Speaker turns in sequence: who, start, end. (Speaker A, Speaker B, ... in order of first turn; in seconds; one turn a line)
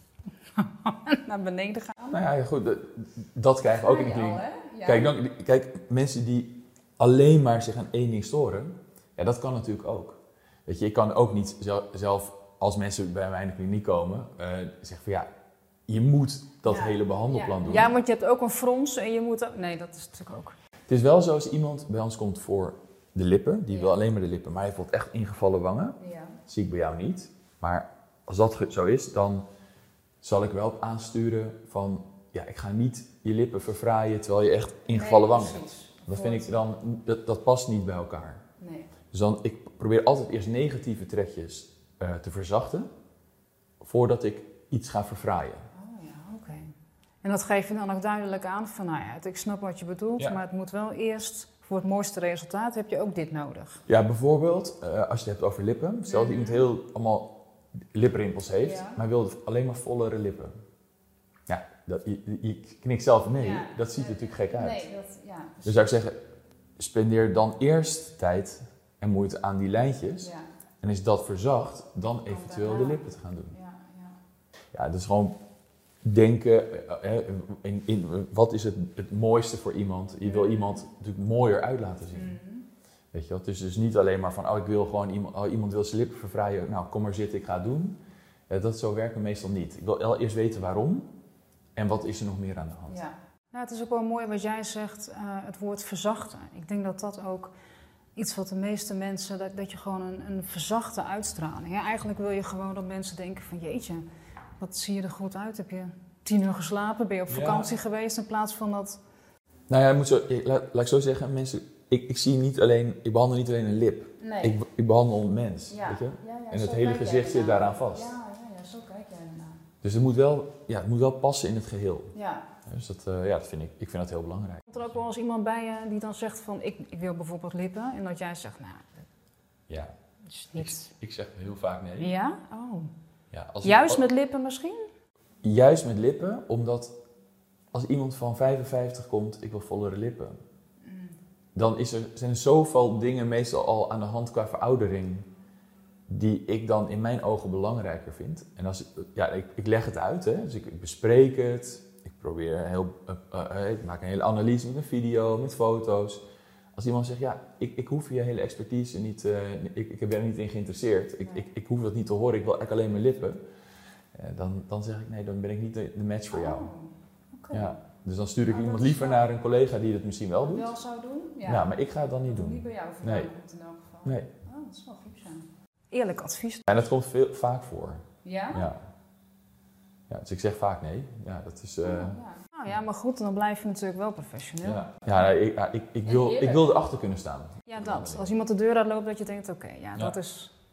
Speaker A: 0.5-2.2
Speaker B: 2.1-15.3
Speaker A: 3.6-5.1
Speaker B: 15.9-17.9
Speaker A: 16.6-20.5
Speaker B: 20.9-29.4
Speaker A: 23.7-24.0
Speaker A: 26.0-26.4
Speaker B: 30.2-38.4
Speaker A: 34.9-36.5
Speaker A: 38.6-38.9
Speaker B: 39.1-42.9
Speaker B: 43.8-45.6
Speaker A: 45.7-53.8
Speaker B: 53.9-57.4
Speaker A: 56.1-56.6
Speaker B: 57.9-60.5
Speaker A: 58.6-59.0
Speaker B: 61.5-64.8
Speaker A: 63.3-65.8
Speaker B: 65.6-66.2
Speaker B: 66.8-70.3
Speaker A: 70.2-70.5
Speaker B: 70.8-73.5
Speaker A: 72.3-74.2
Speaker B: 74.7-75.3
Speaker B: 76.0-82.3
Speaker A: 80.2-80.8
Speaker A: 82.1-82.7
Speaker B: 83.1-88.0
Speaker B: 88.5-91.1
Speaker B: 91.8-93.0
Speaker A: 92.9-97.5
Speaker A: 98.2-104.0
Speaker A: 104.6-109.0
Speaker B: 107.3-107.7
Speaker B: 109.7-118.1
Speaker A: 114.2-114.6
Speaker A: 115.7-119.6
Speaker B: 119.8-122.1
Speaker A: 122.1-122.5
Speaker B: 122.7-124.6
Speaker A: 124.7-129.0
Speaker A: 130.3-130.9
Speaker B: 130.6-132.1
Speaker A: 132.0-132.9
Speaker B: 133.3-134.0
Speaker A: 133.6-134.8
Speaker B: 135.4-136.9
Speaker B: 137.7-140.3
Speaker A: 140.8-141.1
Speaker B: 141.5-145.3
Speaker B: 146.1-156.2
Speaker B: 156.7-163.4
Speaker B: 164.1-166.7
Speaker A: 166.3-167.8
Speaker B: 167.5-170.7
Speaker A: 168.4-169.2
Speaker A: 170.4-171.7
Speaker B: 171.4-173.3
Speaker A: 172.2-176.7
Speaker B: 174.0-174.3
Speaker B: 176.7-178.8
Speaker A: 178.2-178.7
Speaker B: 180.1-182.2
Speaker A: 181.8-185.0
Speaker B: 184.6-188.3
Speaker A: 186.0-186.7
Speaker A: 187.7-190.5